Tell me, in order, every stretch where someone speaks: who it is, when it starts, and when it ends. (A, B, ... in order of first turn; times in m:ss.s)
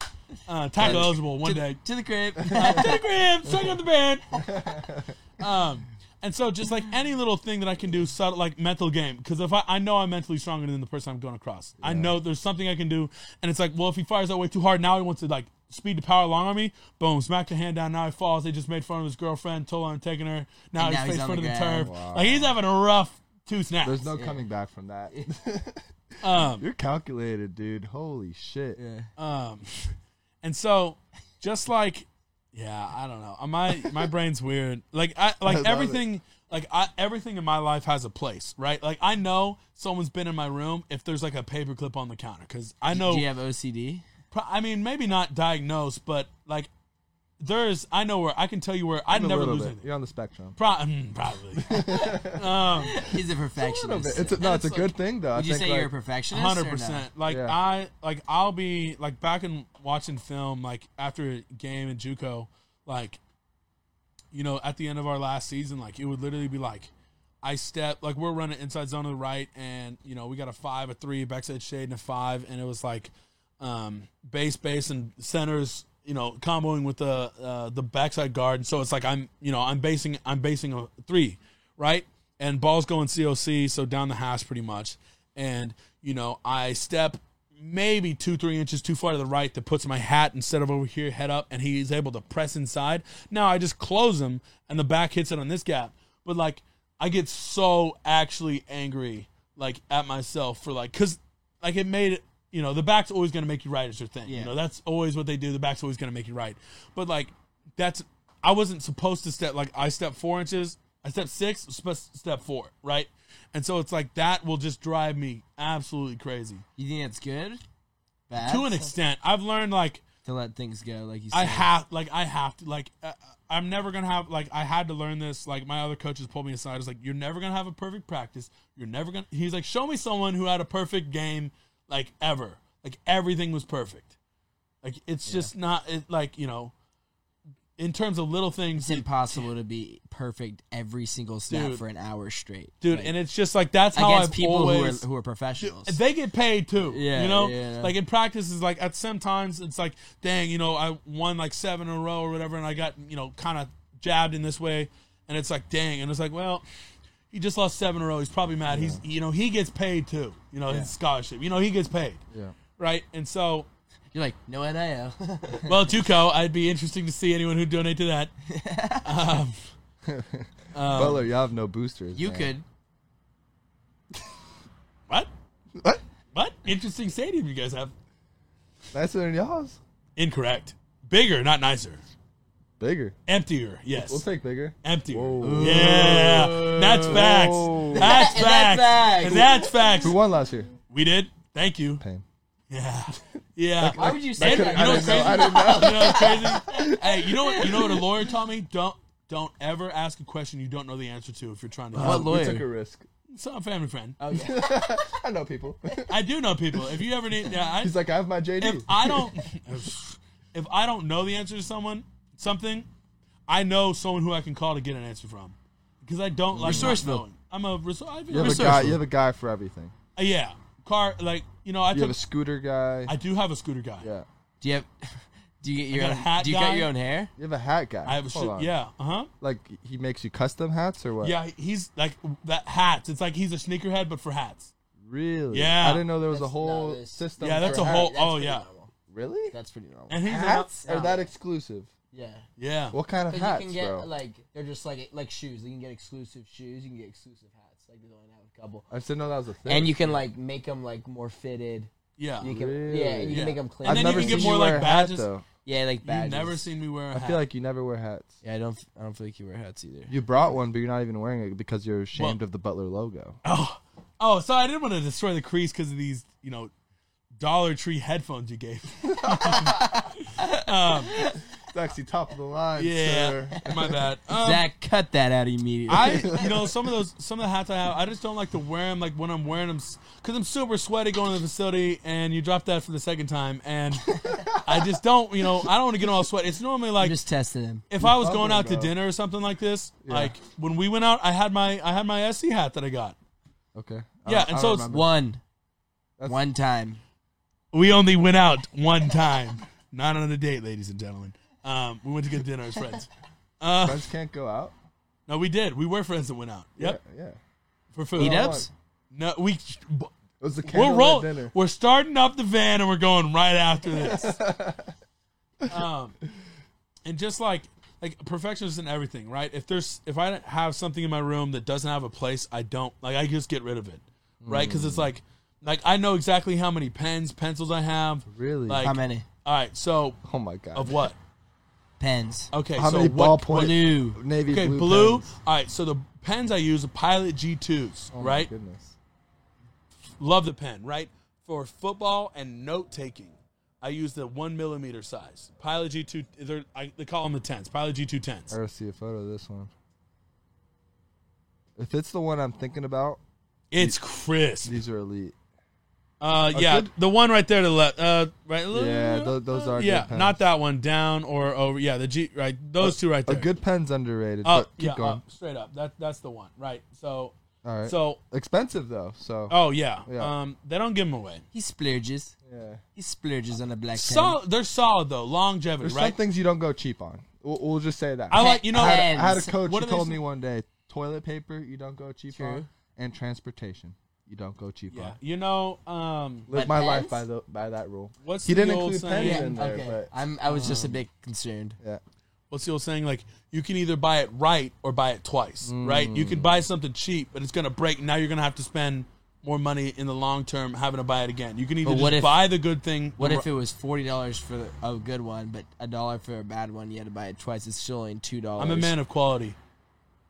0:00.4-0:01.8 A
0:00.8-0:03.0 B
0:00.8-0:01.1 C
0:02.4-0:04.4 A
0:04.4-0:05.1 C
0:05.4-0:24.1 A
0:11.8-0:12.1 C
0:20.8-0:21.9 B
0:21.8-0:22.6 C
0:23.8-0:28.8 C
0:24.1-0:24.4 B
0:26.2-0:26.6 A
0:28.8-0:29.1 B
0:29.2-0:43.2 A
0:35.4-0:36.0 C
0:42.9-0:44.0 B
0:44.3-0:46.7 A
0:47.4-0:49.8 A
0:49.1-0:50.6 C
0:50.6-0:53.0 A
0:51.6-0:52.4 C
0:51.9-0:52.2 B
0:52.8-0:57.0 B
0:53.6-0:55.9 C
0:56.3-1:03.2 A
0:57.3-0:57.6 C
1:04.3-1:06.9 A
1:07.4-1:56.6 A
1:44.3-1:44.5 B
1:56.8-1:57.6 B
1:58.3-1:58.9 B
1:58.4-2:00.0 A
2:00.2-2:01.7 B
2:01.3-2:14.1 A
2:14.8-2:16.7 A
2:15.3-2:15.5 B
2:17.8-2:19.5 A
2:18.7-2:23.1 B
2:21.5-2:21.8 A
2:22.8-2:25.0 A
2:23.9-2:26.0 B
2:25.6-2:36.6 A
2:26.8-2:27.9 B
2:37.3-2:42.2 A
2:38.7-2:39.0 C
2:42.8-2:43.7 A
2:44.1-2:46.0 B
2:45.6-2:48.3 A
2:48.5-2:49.1 B
2:49.0-2:49.7 A
2:50.0-2:52.5 C
2:50.7-2:51.3 A
2:52.1-2:52.6 B
2:56.3-2:57.9 A
2:58.9-2:59.8 C
3:00.2-3:02.0 A
3:02.8-3:03.1 C
3:03.3-3:04.2 A
3:04.0-3:08.3 C
3:04.8-3:10.1 A
3:05.4-3:07.3 B
3:07.9-3:09.7 B
3:10.0-3:10.7 C
3:10.9-3:12.0 A
3:12.0-3:12.2 C
3:12.7-3:22.5 A
3:13.8-3:17.0 C
3:13.9-3:18.0 B
3:21.9-3:23.0 C
3:22.0-3:22.7 B
3:23.3-3:24.2 A
3:24.2-3:25.0 B
3:24.3-3:26.2 C
3:26.1-3:27.9 A
3:27.8-3:29.3 C
3:28.6-3:32.9 A
3:33.5-3:39.0 A
3:36.5-3:37.1 C
3:36.6-3:37.2 B
3:38.3-3:39.9 C
3:38.3-3:38.9 B
3:40.2-3:42.2 A
3:41.9-3:43.1 C
3:43.1-3:44.1 A
3:44.0-3:44.2 C
3:44.6-3:47.3 B
3:45.9-3:46.9 A
3:47.4-3:48.7 C
3:48.0-3:49.3 A
3:49.4-3:51.4 C
3:51.2-3:54.7 A
3:55.0-3:58.1 C
3:55.5-3:56.0 A
3:56.3-3:58.9 B
3:57.4-3:58.6 A
3:59.1-3:59.5 C
3:59.5-4:01.3 B
4:00.1-4:00.7 A
4:00.2-4:01.9 C
4:02.1-4:02.4 B
4:02.6-4:03.0 A
4:02.9-4:04.1 C
4:03.3-4:08.8 B
4:08.9-4:10.2 C
4:09.6-4:14.7 B
4:12.2-4:12.5 A
4:12.4-4:15.4 C
4:13.3-4:15.3 A
4:15.6-4:16.7 B
4:16.0-4:17.4 A
4:17.1-4:18.3 C
4:18.4-4:20.1 B
4:20.1-4:23.4 C
4:23.4-4:26.7 A
4:27.4-4:31.2 A
4:29.5-4:31.4 B
4:31.7-4:33.9 C
4:32.8-4:34.7 A
4:34.4-4:36.4 B
4:35.9-4:47.2 A
4:44.2-4:44.8 C
4:47.0-4:47.8 B
4:47.9-4:53.2 A
4:48.0-4:48.9 C
4:50.0-4:50.3 C
4:53.7-4:55.1 C
4:54.2-4:54.9 A
4:54.8-4:55.4 B
4:56.3-4:57.0 B
4:57.7-5:04.0 A
5:03.8-5:04.7 C
5:05.3-5:07.0 A
5:06.8-5:07.4 C
5:07.9-5:10.1 A
5:08.1-5:08.7 C
5:08.2-5:08.7 B
5:10.4-5:11.5 C
5:10.6-5:14.4 A
5:13.9-5:14.9 C
5:15.7-5:16.2 A
5:17.0-5:30.2 A
5:24.4-5:25.1 C
5:28.3-5:28.9 C
5:28.8-5:29.2 B
5:30.2-5:31.1 C
5:30.7-5:31.2 A
5:32.0-5:32.5 B
5:32.5-5:33.8 A
5:32.8-5:35.3 C
5:33.5-5:34.2 B
5:34.5-5:38.5 A
5:38.1-5:38.9 C
5:40.2-5:48.5 A
5:48.5-5:49.7 C
5:51.8-5:53.2 C
5:53.7-5:54.8 A
5:54.6-5:55.3 C
5:56.2-6:03.5 A
5:56.5-5:56.9 C
5:58.7-6:00.4 C
6:02.8-6:05.2 C
6:04.4-6:08.2 A
6:07.6-6:10.3 C
6:09.5-6:11.4 A
6:11.5-6:12.3 B
6:12.4-6:12.8 C
6:13.0-6:14.4 B
6:13.9-6:16.2 A
6:15.8-6:25.2 C
6:18.3-6:20.2 A
6:18.3-6:19.6 B
6:22.3-6:22.7 B
6:24.9-6:26.5 A
6:26.5-6:30.1 C
6:26.5-6:27.2 B
6:28.2-6:29.6 A
6:29.2-6:31.8 B
6:30.5-6:31.0 A
6:32.5-6:43.5 A
6:35.6-6:36.6 C
6:41.8-6:42.5 B
6:43.2-6:48.9 B
6:48.6-6:49.6 A